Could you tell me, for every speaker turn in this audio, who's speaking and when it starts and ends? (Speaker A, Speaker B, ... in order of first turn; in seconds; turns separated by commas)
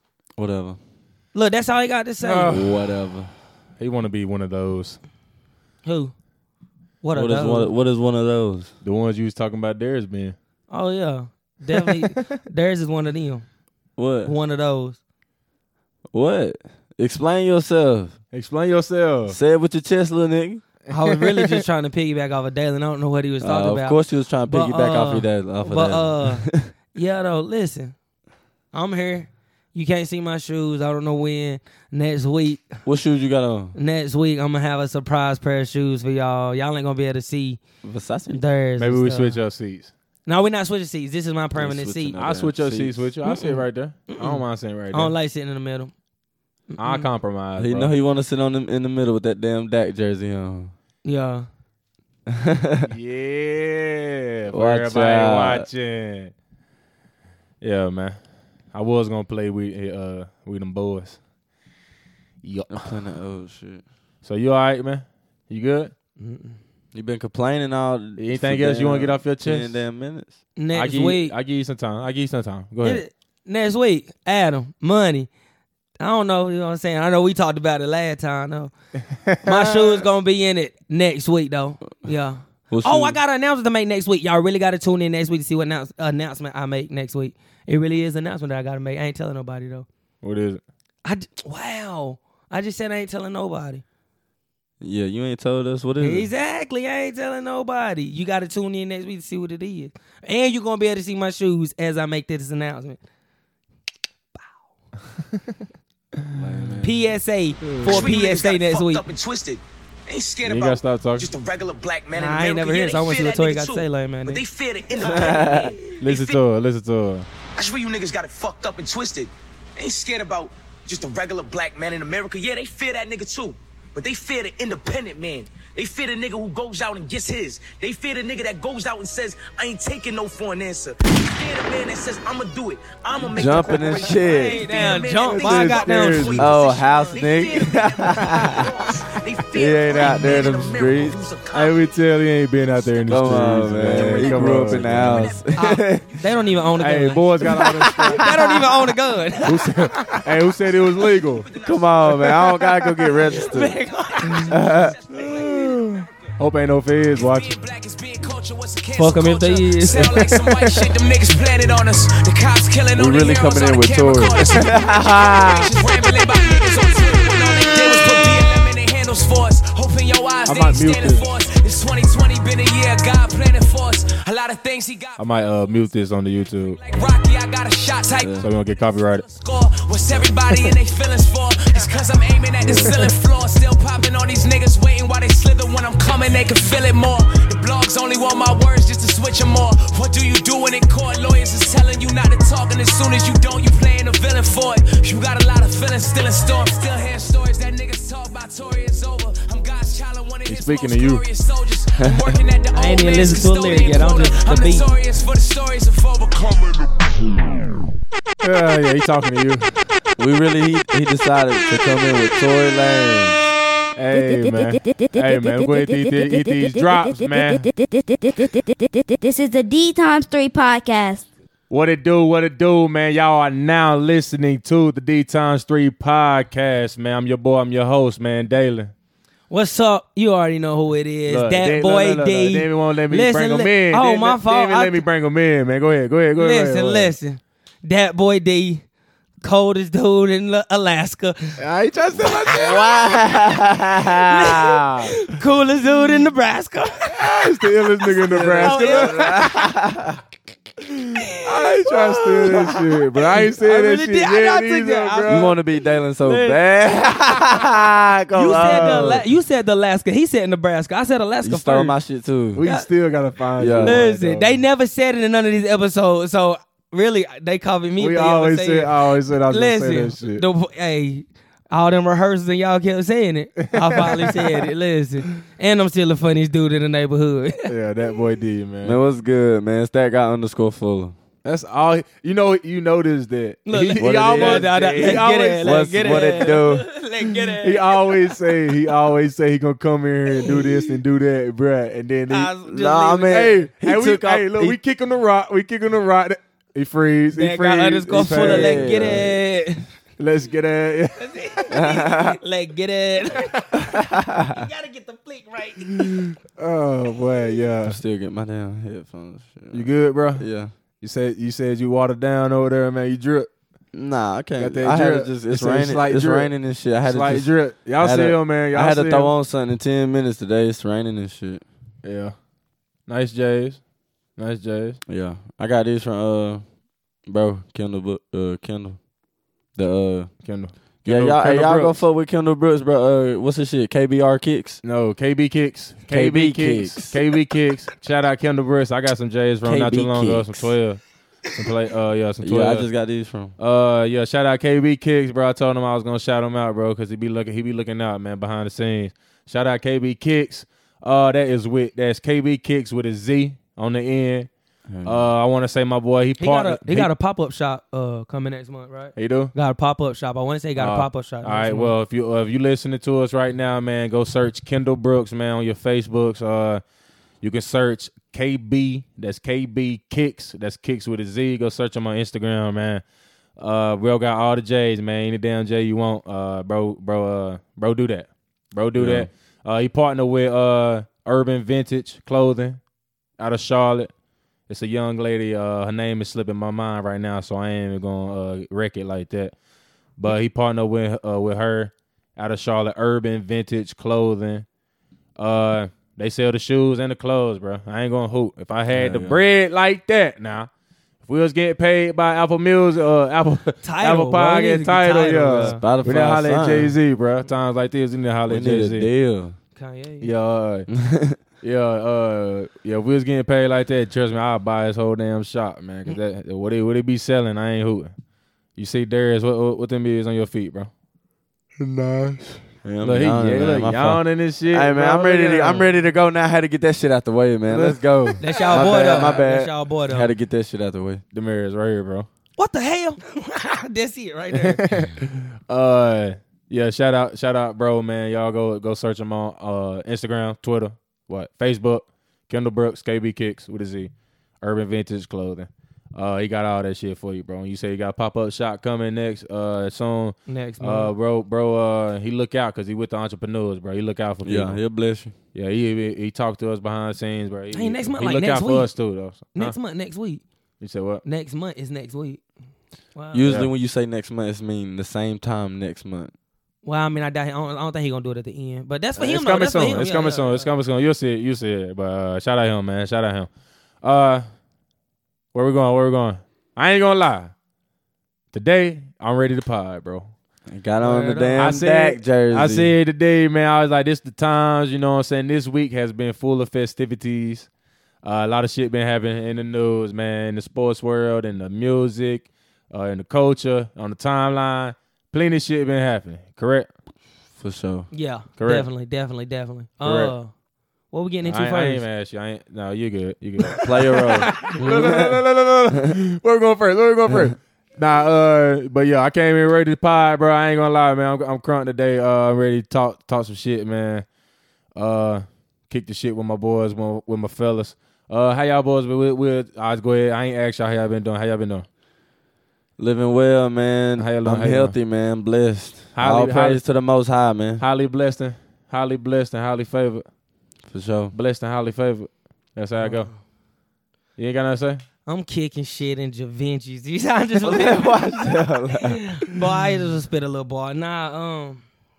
Speaker A: 0.4-0.8, Speaker B: 1.3-2.5, Speaker C: 2.2-3.0, Speaker A: 2.5-3.3, Speaker C: 3.8-5.0, Speaker B: 5.8-6.1, Speaker B: 7.0-7.7, Speaker A: 7.1-8.7, Speaker C: 8.8-10.3, Speaker B: 10.7-13.4, Speaker A: 14.0-14.3, Speaker B: 14.2-15.0, Speaker A: 16.1-18.2, Speaker C: 18.3-19.4, Speaker A: 19.3-20.6, Speaker B: 20.9-27.9, Speaker C: 20.9-21.6, Speaker A: 23.4-26.7, Speaker B: 28.7-32.8, Speaker A: 32.8-33.7, Speaker B: 33.7-37.6, Speaker A: 37.8-38.4, Speaker B: 38.3-39.4, Speaker C: 38.8-39.9, Speaker B: 40.2-42.2, Speaker A: 41.5-43.5, Speaker C: 42.2-45.1, Speaker B: 44.1-45.9, Speaker B: 46.7-47.1, Speaker C: 46.8-47.9, Speaker A: 47.6-50.7, Speaker B: 51.0-51.5, Speaker A: 52.3-52.9, Speaker C: 52.8-56.3, Speaker A: 54.5-55.7, Speaker C: 57.6-58.2, Speaker C: 58.7-61.2, Speaker C: 62.4-62.8, Speaker A: 62.7-63.8, Speaker C: 64.2-65.9, Speaker B: 66.2-66.6, Speaker A: 66.9-70.3, Speaker C: 68.2-69.7, Speaker B: 70.6-71.3, Speaker C: 70.7-73.0, Speaker B: 72.8-75.3, Speaker B: 76.0-78.7, Speaker C: 79.2-80.0, Speaker B: 79.4-89.8, Speaker A: 82.7-83.2, Speaker C: 90.2-90.6, Speaker B: 91.0-93.8, Speaker A: 94.8-96.3, Speaker B: 96.0-103.0, Speaker A: 106.3-107.0, Speaker B: 106.8-109.0, Speaker C: 107.7-107.9, Speaker D: 107.8-116.4, Speaker C: 110.4-111.3, Speaker B: 112.1-114.4, Speaker A: 115.0-115.7, Speaker C: 116.0-117.3, Speaker D: 117.5-142.0, Speaker A: 133.2-134.6, Speaker B: 134.0-136.4, Speaker C: 135.3-136.6, Speaker A: 136.3-138.7, Speaker A: 139.5-141.2, Speaker C: 141.5-145.3, Speaker D: 142.7-143.2, Speaker A: 143.1-146.1, Speaker D: 143.9-147.1, Speaker B: 145.6-147.3, Speaker C: 146.8-148.3, Speaker A: 147.4-148.4, Speaker B: 148.1-149.7, Speaker C: 149.4-151.5, Speaker D: 150.1-156.3, Speaker A: 151.6-153.7, Speaker B: 153.4-154.5, Speaker A: 154.4-155.0, Speaker C: 155.1-157.5, Speaker D: 157.1-175.2, Speaker B: 159.0-160.2, Speaker C: 160.0-160.7, Speaker A: 162.9-165.7, Speaker C: 170.4-171.2, Speaker C: 175.2-176.8, Speaker D: 176.7-178.4, Speaker A: 178.2-178.5, Speaker C: 178.4-179.2, Speaker D: 179.0-206.9, Speaker C: 182.6-183.0, Speaker C: 200.4-201.2, Speaker A: 202.0-202.4, Speaker B: 202.7-204.8, Speaker C: 208.4-209.7, Speaker A: 210.2-213.4, Speaker C: 213.9-217.7, Speaker E: 214.1-221.3, Speaker C: 221.7-228.9, Speaker B: 229.5-235.0, Speaker C: 231.3-237.1, Speaker B: 236.4-238.8, Speaker B: 239.4-241.6, Speaker C: 241.6-243.0, Speaker A: 242.5-244.8, Speaker B: 244.3-247.2, Speaker C: 244.7-245.2, Speaker C: 247.1-249.5, Speaker B: 248.0-249.4, Speaker A: 248.1-250.2, Speaker C: 250.8-255.6, Speaker B: 251.2-251.5, Speaker B: 252.4-252.7, Speaker A: 252.4-252.7, Speaker B: 253.3-255.5, Speaker A: 255.3-259.2, Speaker B: 256.2-256.6, Speaker B: 258.3-261.9, Speaker C: 258.4-259.2, Speaker A: 261.4-262.6, Speaker C: 262.5-264.6, Speaker B: 262.6-262.9, Speaker A: 263.6-264.0, Speaker B: 263.8-277.7, Speaker C: 268.0-270.4, Speaker C: 273.7-274.5, Speaker C: 277.7-279.0, Speaker A: 278.8-281.1, Speaker C: 281.4-286.4, Speaker B: 283.6-288.2, Speaker A: 283.9-286.9, Speaker C: 287.6-292.5, Speaker B: 292.3-293.5, Speaker A: 292.6-294.8, Speaker C: 293.3-299.3, Speaker B: 297.3-299.8, Speaker A: 298.1-299.3, Speaker C: 300.2-301.7, Speaker B: 301.2-306.1, Speaker A: 301.7-302.4, Speaker A: 303.9-304.6, Speaker C: 305.9-308.0, Speaker A: 307.8-310.7, Speaker C: 309.7-310.4, Speaker C: 311.0-313.5, Speaker A: 313.9-321.6, Speaker C: 314.6-316.5, Speaker C: 317.0-319.3, Speaker C: 322.0-322.3, Speaker C: 323.1-323.8, Speaker C: 324.4-325.0, Speaker A: 325.1-326.6, Speaker A: 327.2-329.0, Speaker A: 329.7-330.3, Speaker C: 330.4-332.0, Speaker A: 331.0-334.8, Speaker C: 334.8-341.0, Speaker A: 336.1-337.2, Speaker A: 339.6-340.7, Speaker C: 341.5-342.9, Speaker A: 342.4-343.5, Speaker C: 343.6-354.5, Speaker A: 354.9-355.3, Speaker C: 355.0-357.1, Speaker B: 356.4-361.9, Speaker C: 359.1-359.5, Speaker C: 360.8-366.8, Speaker C: 367.4-373.0, Speaker C: 373.6-382.8, Speaker A: 378.9-379.3, Speaker C: 383.4-384.1, Speaker C: 384.7-389.5, Speaker C: 390.2-394.6, Speaker C: 395.4-400.7, Speaker A: 398.9-399.4, Speaker C: 401.2-409.1, Speaker B: 403.8-405.8, Speaker A: 405.5-407.0, Speaker A: 408.5-409.6, Speaker B: 409.8-410.3, Speaker C: 410.2-410.9, Speaker A: 410.9-411.4, Speaker C: 411.6-418.1, Speaker C: 418.8-420.9, Speaker C: 421.8-425.9, Speaker A: 422.8-431.2, Speaker C: 427.7-429.4, Speaker B: 428.4-430.3, Speaker C: 431.3-432.3, Speaker B: 432.6-434.8, Speaker C: 434.5-454.8, Speaker B: 450.5-451.1, Speaker A: 454.4-455.3, Speaker C: 455.5-459.8, Speaker B: 457.7-458.9, Speaker B: 459.5-460.4, Speaker C: 460.8-461.2, Speaker B: 461.2-462.4, Speaker B: 463.1-463.5, Speaker A: 463.3-466.3, Speaker C: 463.4-463.7, Speaker B: 466.8-470.7, Speaker C: 469.2-473.5, Speaker C: 474.0-474.4, Speaker C: 475.5-477.5, Speaker C: 478.5-480.3, Speaker A: 480.7-482.9, Speaker B: 481.0-481.7, Speaker C: 481.6-487.7, Speaker C: 488.2-496.9, Speaker A: 497.6-498.1, Speaker B: 498.1-500.5, Speaker C: 498.6-498.9, Speaker C: 500.0-500.3, Speaker B: 501.1-502.0, Speaker C: 501.4-514.2, Speaker A: 503.8-506.2, Speaker C: 514.9-521.9, Speaker A: 523.0-527.8, Speaker C: 524.2-524.9, Speaker C: 526.1-526.8, Speaker C: 527.8-530.2, Speaker A: 530.9-531.3, Speaker C: 531.3-533.3, Speaker B: 533.0-533.3, Speaker C: 534.4-535.0, Speaker B: 535.2-538.5, Speaker A: 537.6-539.2, Speaker B: 539.3-541.8